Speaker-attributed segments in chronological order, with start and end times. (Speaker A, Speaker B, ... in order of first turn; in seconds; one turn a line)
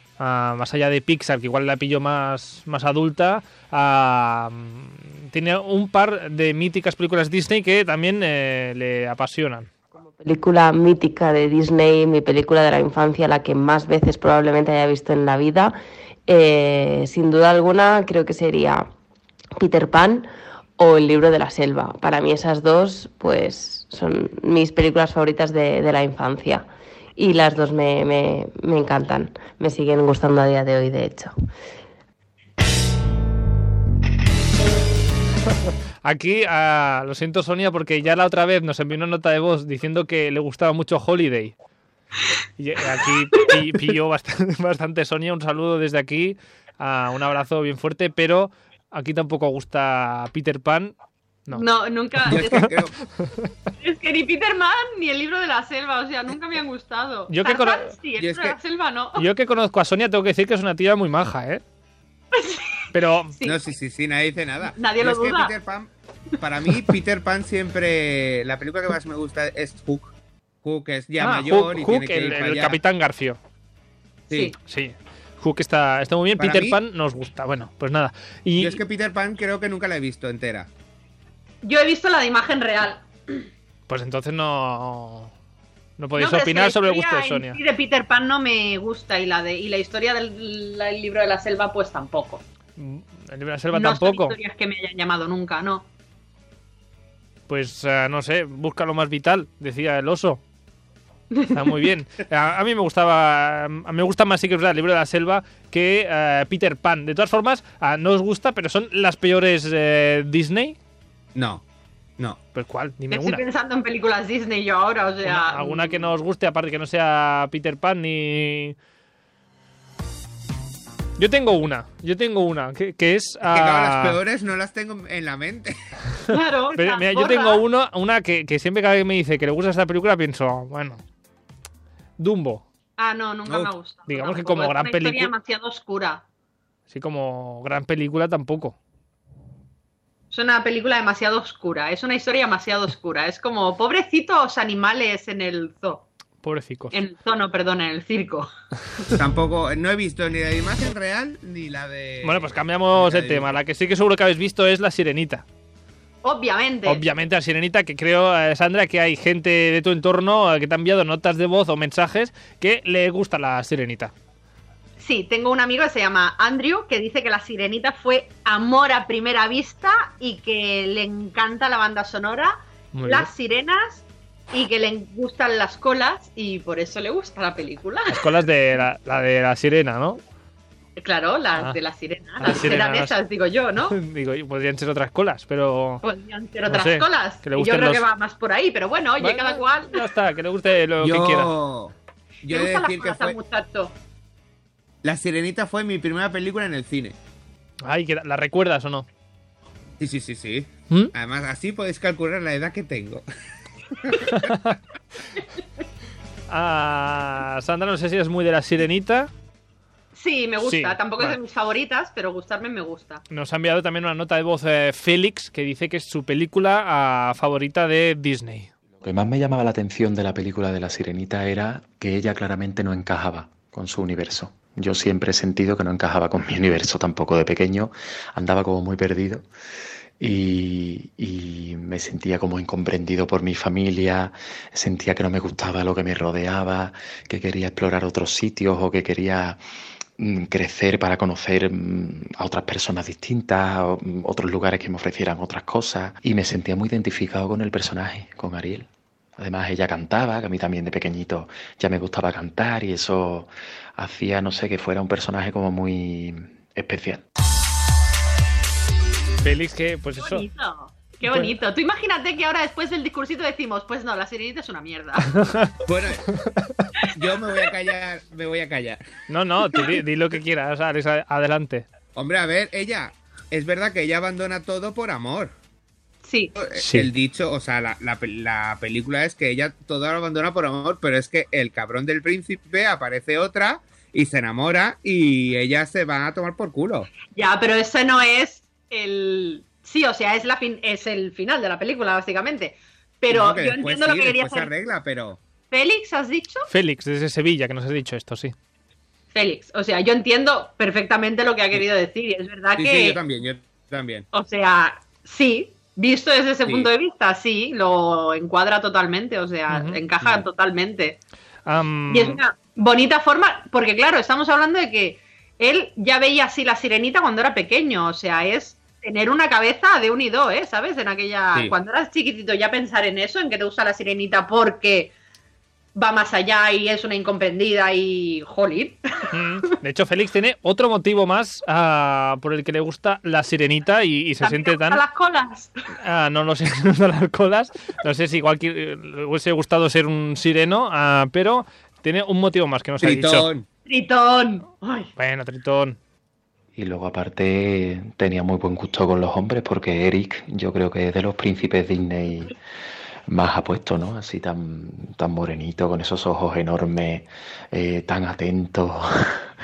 Speaker A: 0.2-9.7
Speaker B: 10.0-15.8
Speaker B: 16.3-18.9
Speaker B: 19.6-31.3
Speaker A: 36.0-41.5
Speaker A: 42.6-50.9
Speaker C: 51.5-52.7
Speaker D: 52.3-52.9
Speaker A: 52.3-53.5
Speaker C: 53.8-59.3
Speaker A: 57.3-57.9
Speaker D: 58.2-58.6
Speaker A: 59.2-61.6
Speaker C: 62.3-63.6
Speaker A: 62.9-63.3
Speaker D: 63.5-65.9
Speaker C: 64.8-65.5
Speaker D: 66.4-72.8
Speaker A: 71.2-73.4
Speaker C: 74.3-74.5
Speaker A: 74.7-78.8
Speaker D: 76.4-76.8
Speaker D: 78.6-80.7
Speaker C: 81.6-83.5
Speaker A: 83.9-85.3
Speaker A: 86.0-87.6
Speaker C: 86.2-92.4
Speaker A: 92.8-94.4
Speaker C: 93.7-95.9
Speaker A: 97.5-100.4
Speaker A: 101.5-110.8
Speaker D: 111.3-111.6
Speaker A: 112.5-113.4
Speaker C: 113.1-116.1
Speaker A: 115.2-118.8
Speaker A: 121.2-124.2
Speaker D: 123.5-125.8
Speaker C: 126.3-127.6
Speaker A: 126.8-131.0
Speaker A: 132.2-132.7
Speaker C: 133.0-136.2
Speaker D: 133.5-133.7
Speaker A: 134.1-135.3
Speaker A: 136.9-138.8
Speaker C: 140.3-146.1
Speaker A: 146.4-146.9
Speaker C: 146.9-148.5
Speaker D: 149.1-153.6
Speaker A: 152.2-155.4
Speaker C: 156.2-157.0
Speaker A: 156.9-164.1
Speaker C: 165.0-178.3
Speaker A: 172.9-173.3
Speaker A: 178.1-180.2
Speaker C: 181.0-184.0
Speaker A: 182.4-183.2
Speaker A: 183.9-186.0
Speaker C: 186.0-190.0
Speaker A: 186.7-188.0
Speaker A: 189.2-191.5
Speaker D: 191.0-193.4
Speaker C: 192.5-193.9
Speaker D: 195.0-197.2
Speaker A: 197.8-199.1
Speaker D: 200.0-203.2
Speaker D: 204.0-204.5
Speaker A: 204.2-204.8
Speaker A: 206.5-209.3
Speaker C: 210.2-213.2
Speaker A: 210.6-211.4
Speaker A: 213.3-218.7
Speaker E: 219.0-229.5
Speaker E: 230.2-239.6
Speaker E: 240.2-257.2
Speaker A: 259.4-260.4
Speaker C: 260.2-265.3
Speaker A: 261.3-261.5
Speaker A: 265.3-265.7
Speaker D: 265.9-266.2
Speaker A: 266.4-266.9
Speaker D: 267.1-269.0
Speaker A: 269.3-271.9
Speaker D: 272.1-275.5
Speaker C: 276.2-276.5
Speaker D: 276.6-287.1
Speaker A: 276.8-277.1
Speaker C: 287.3-294.7
Speaker D: 293.3-295.4
Speaker C: 295.7-296.7
Speaker A: 296.7-298.5
Speaker C: 299.3-303.2
Speaker D: 302.8-304.3
Speaker C: 304.3-311.2
Speaker A: 309.7-310.0
Speaker D: 310.2-310.5
Speaker A: 311.7-312.4
Speaker C: 312.1-325.1
Speaker C: 325.9-329.3
Speaker A: 329.3-335.0
Speaker C: 334.4-335.7
Speaker A: 336.0-343.5
Speaker D: 343.0-343.7
Speaker C: 343.9-345.1
Speaker A: 345.2-346.0
Speaker E: 346.8-352.6
Speaker E: 353.3-359.1